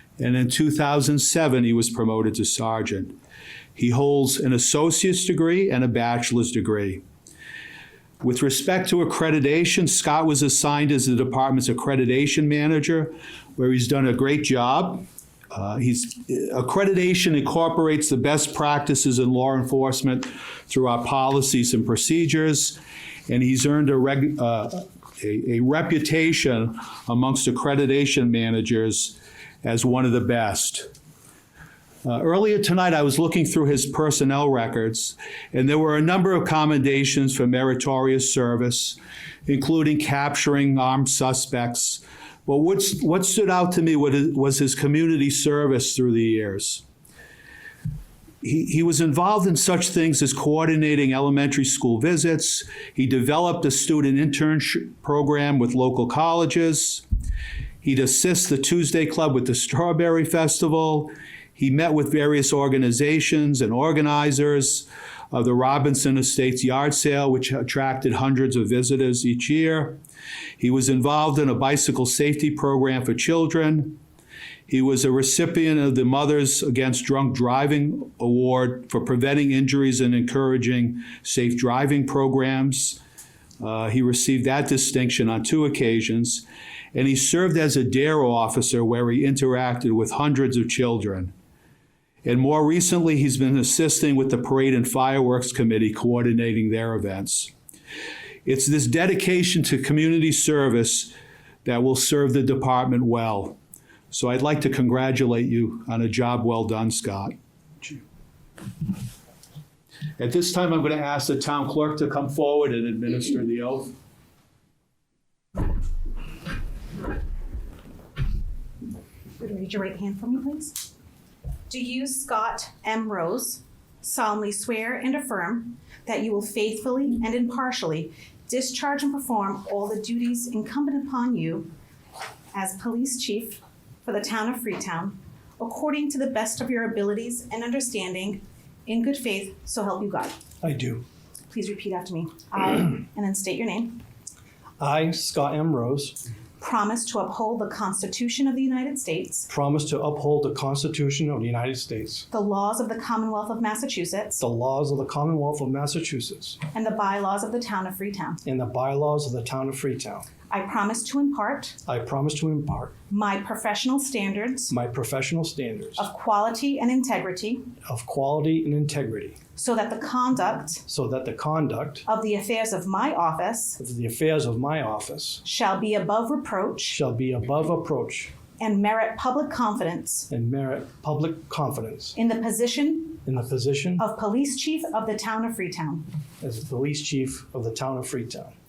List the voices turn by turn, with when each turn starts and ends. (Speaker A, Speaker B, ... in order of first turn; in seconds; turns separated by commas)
Speaker A: 0.2-3.1, Speaker A: 3.8-7.0, Speaker A: 8.2-30.9, Speaker A: 32.0-46.8, Speaker A: 48.4-57.0, Speaker A: 57.8-70.0, Speaker A: 70.6-74.0, Speaker A: 74.7-83.0, Speaker A: 83.6-91.3, Speaker A: 92.2-97.5, Speaker A: 98.5-101.1, Speaker A: 101.7-103.6, Speaker A: 104.1-108.0, Speaker A: 110.2-113.9, Speaker B: 119.4-120.9, Speaker B: 121.7-131.7, Speaker B: 132.5-140.4, Speaker C: 140.6-141.1, Speaker B: 141.5-144.0, Speaker C: 144.8-146.2, Speaker B: 146.6-149.5, Speaker C: 149.5-152.3, Speaker B: 152.3-154.4, Speaker C: 154.4-156.6, Speaker B: 156.7-158.4, Speaker C: 158.4-160.3, Speaker B: 160.5-161.8, Speaker C: 161.9-163.0, Speaker B: 163.1-164.7, Speaker C: 164.7-166.1, Speaker B: 166.0-167.7, Speaker C: 167.8-169.4, Speaker B: 169.6-170.8, Speaker C: 170.9-172.1, Speaker B: 172.1-173.8, Speaker C: 173.8-175.4, Speaker B: 175.4-177.0, Speaker C: 176.9-178.3, Speaker B: 178.6-180.3, Speaker C: 180.3-182.2, Speaker B: 182.2-183.2, Speaker C: 183.2-184.1, Speaker B: 184.0-186.1, Speaker C: 186.4-188.5